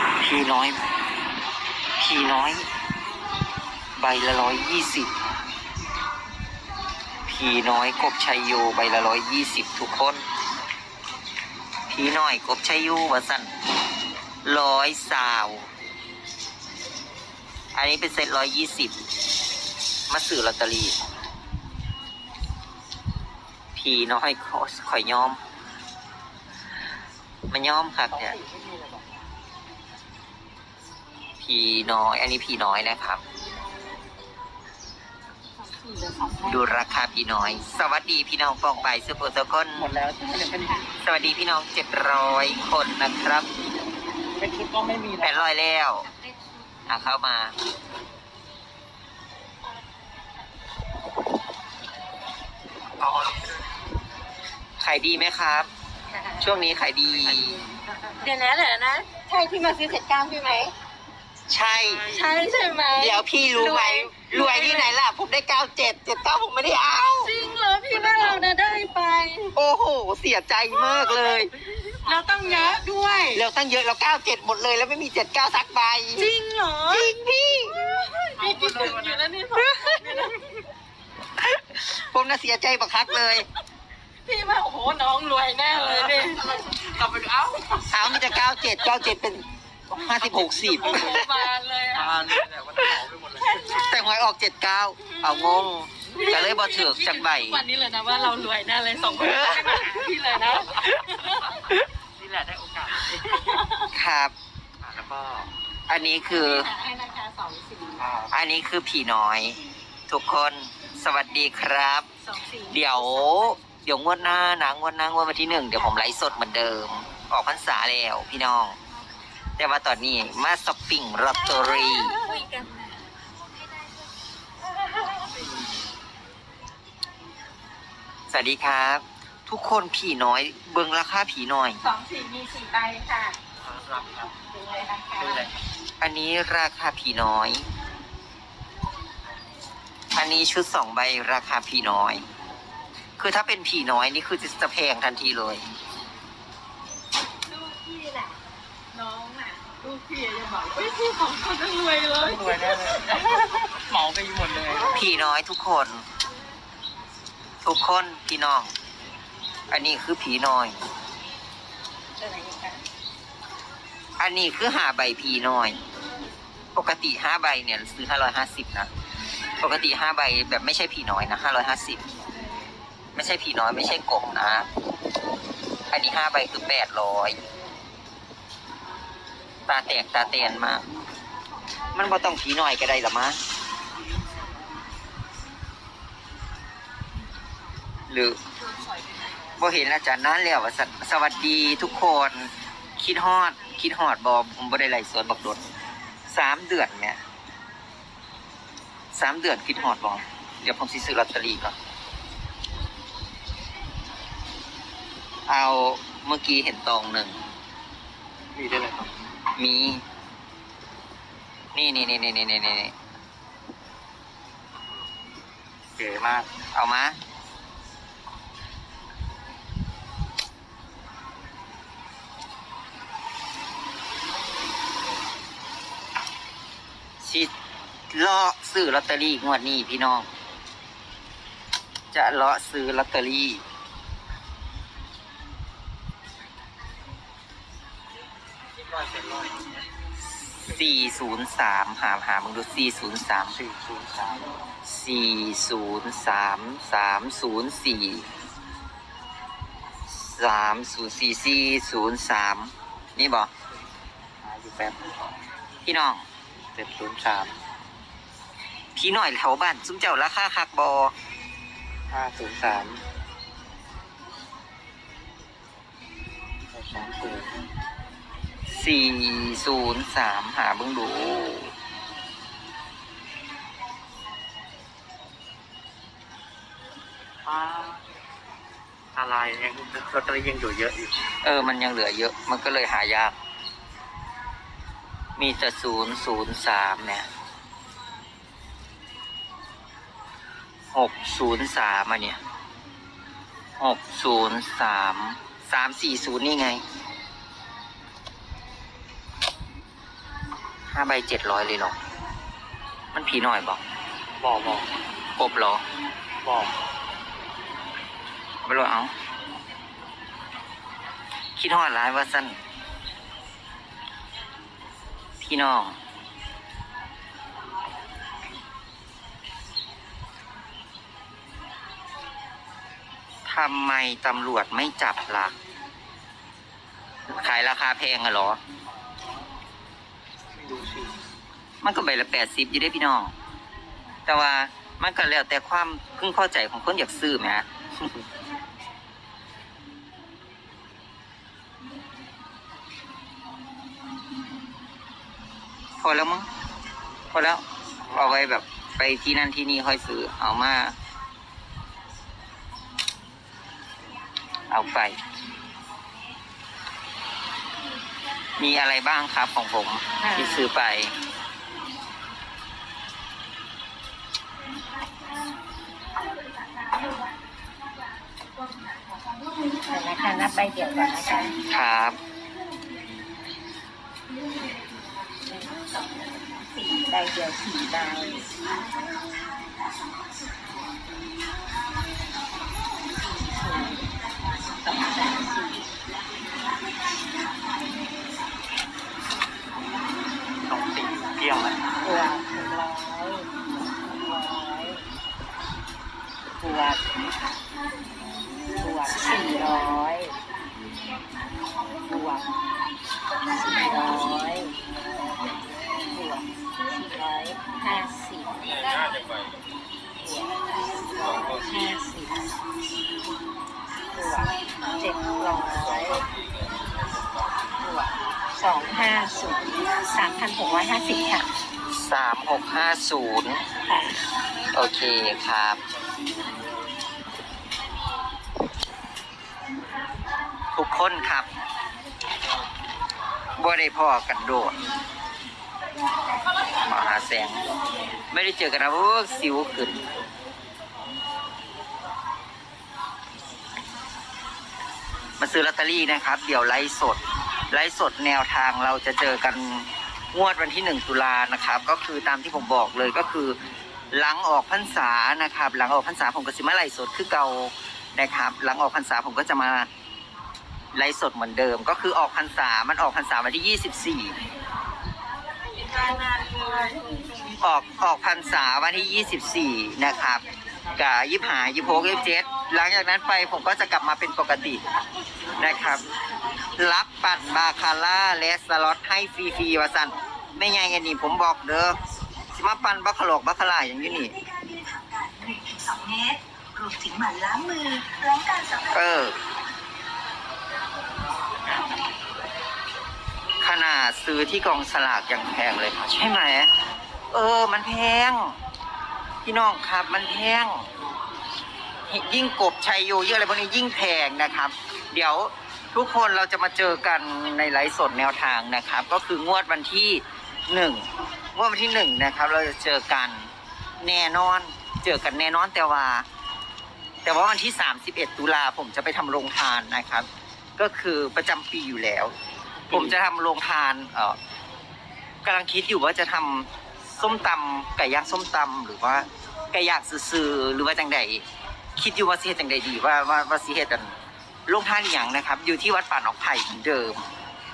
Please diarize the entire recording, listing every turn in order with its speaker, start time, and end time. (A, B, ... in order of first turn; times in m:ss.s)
0:00.2-0:00.8 A
0:02.0-0:02.7 A
0:04.0-0:05.1 A
0:07.3-0:10.2 A
0:11.9-0:13.5 A
0:14.4-0:15.7 A
0:17.7-0:19.0 A
0:20.1-0:21.0 A
0:23.8-0:25.4 A
0:27.5-0:28.4 A
0:28.1-0:29.2 B
0:31.4-0:33.2 A
0:35.7-0:36.4 C
0:36.4-0:40.0 A
0:39.8-0:40.8 B
0:41.0-0:43.5 A
0:44.4-0:45.4 B
0:45.2-0:46.1 A
0:46.9-0:47.5 A
0:54.8-0:55.7 A
0:56.4-0:57.6 A
0:58.2-1:00.7 C
1:01.5-1:02.2 A
1:01.8-1:02.3 B
1:02.0-1:04.9 C
1:03.0-1:07.3 A
1:07.2-1:09.5 C
1:09.5-1:11.5 A
1:10.9-1:11.3 C
1:11.9-1:13.4 C
1:13.3-1:16.3 A
1:16.2-1:20.6 C
1:16.9-1:17.8 A
1:18.4-1:19.2 B
1:21.4-1:23.5 A
1:24.3-1:26.8 C
1:26.0-1:26.3 B
1:26.8-1:28.0 B
1:27.9-1:31.3 A
1:30.4-1:30.8 B
1:30.7-1:32.2 C
1:32.0-1:33.6 B
1:33.5-1:33.8 C
1:33.6-1:37.6 A
1:35.2-1:41.6 C
1:39.2-1:40.0 A
1:42.2-1:43.6 B
1:43.4-1:43.8 C
1:43.9-1:44.3 A
1:44.8-1:45.5 B
1:45.9-1:46.7 A
1:46.3-1:48.0 C
1:48.0-1:48.3 B
1:48.3-1:52.1 A
1:52.2-1:53.5 C
1:52.7-1:58.8 A
1:59.6-2:02.2 A
2:01.6-2:02.8 C
2:08.3-2:11.8 A
2:11.8-2:13.4 C
2:13.6-2:14.3 B
2:14.5-2:15.5 C
2:15.2-2:15.5 B
2:16.0-2:17.7 A
2:20.1-2:22.2 A
2:23.2-2:25.6 A
2:27.5-2:28.4 C
2:28.9-2:33.6 C
2:32.2-2:35.0 B
2:34.9-2:36.0 A
2:37.6-2:38.7 A
2:39.7-2:40.8 A
2:42.2-2:42.8 C
2:44.2-2:45.8 A
2:46.8-2:48.9 A
2:49.6-2:52.0 A
2:53.2-2:54.7 A
2:55.9-2:57.4 A
2:59.7-3:00.9 A
3:01.9-3:03.4 A
3:08.1-3:08.4 A
3:09.6-3:15.6 A
3:16.3-3:17.2 A
3:19.1-3:21.8 A
3:25.5-3:27.4 A
3:28.6-3:29.1 B
3:29.6-3:30.0 A
3:31.7-3:32.9 A
3:36.0-3:36.5 B
3:36.7-3:37.2 A
3:47.2-3:47.5 A
3:48.1-3:50.3 A
3:52.1-3:53.6 A
4:00.2-4:03.6 A
4:03.6-4:04.6 B
4:04.8-4:08.3 A
4:10.1-4:13.5 A
4:14.4-4:15.4 B
4:15.8-4:16.3 A
4:16.8-4:17.6 B
4:19.0-4:21.1 A
4:22.1-4:23.0 B
4:26.7-4:27.5 B
4:28.7-4:31.7 A
4:37.4-4:38.0 B
4:39.2-4:41.2 B
4:41.4-4:43.4 A
4:45.4-4:47.3 A
4:50.9-4:52.4 A
4:53.8-4:56.8 A
5:00.9-5:02.0 A
5:03.1-5:03.8 A
5:04.4-5:04.9 B
5:05.4-5:05.8 A
5:06.4-5:06.8 B
5:08.6-5:09.1 A
5:11.6-5:12.6 A
5:15.4-5:16.0 A
5:23.5-5:25.6 A
5:27.3-5:28.6 A
5:30.6-5:31.1 B
5:31.8-5:33.3 A
5:34.3-5:37.7 A
5:46.0-5:46.5 A
5:47.3-5:51.0 A
5:54.7-5:55.2 A
5:58.6-6:01.2 A
6:00.2-6:00.6 C
6:09.8-6:11.6 C
6:11.7-6:12.2 A
6:15.5-6:15.8 C
6:16.7-6:18.5 C
6:23.4-6:24.0 C
6:25.0-6:25.9 C
6:30.7-6:31.8 B
6:32.0-6:33.5 C
6:34.2-6:35.0 C
6:36.6-6:37.0 C
6:38.8-6:40.3 C
6:42.1-6:42.5 C
6:43.6-6:44.8 C
6:46.1-6:48.8 C
6:50.2-6:52.6 C
6:54.1-6:56.3 C
6:57.8-7:01.5 C
7:01.9-7:03.6 A
7:03.9-7:04.2 C
7:04.7-7:05.8 A
7:10.8-7:11.5 A
7:13.6-7:14.8 A
7:16.8-7:17.6 A
7:18.3-7:20.1 A
7:25.4-7:33.6 A
7:34.1-7:39.9 A
7:40.9-7:44.4 A
7:46.0-7:46.9 C
7:47.6-7:50.4 A
7:51.0-7:54.8 A
7:55.6-7:56.0 A
7:56.8-8:02.0 A
8:02.5-8:04.4 A
8:04.4-8:08.9 D
8:08.8-8:09.4 A
8:13.6-8:16.7 A
8:17.3-8:18.6 A
8:19.4-8:20.9 A
8:22.1-8:36.3 A
8:37.2-8:40.3 A
8:40.8-8:42.3 A
8:42.9-8:44.4 A
8:45.4-8:51.4 A
8:52.0-8:54.2 A
8:54.7-8:57.2 A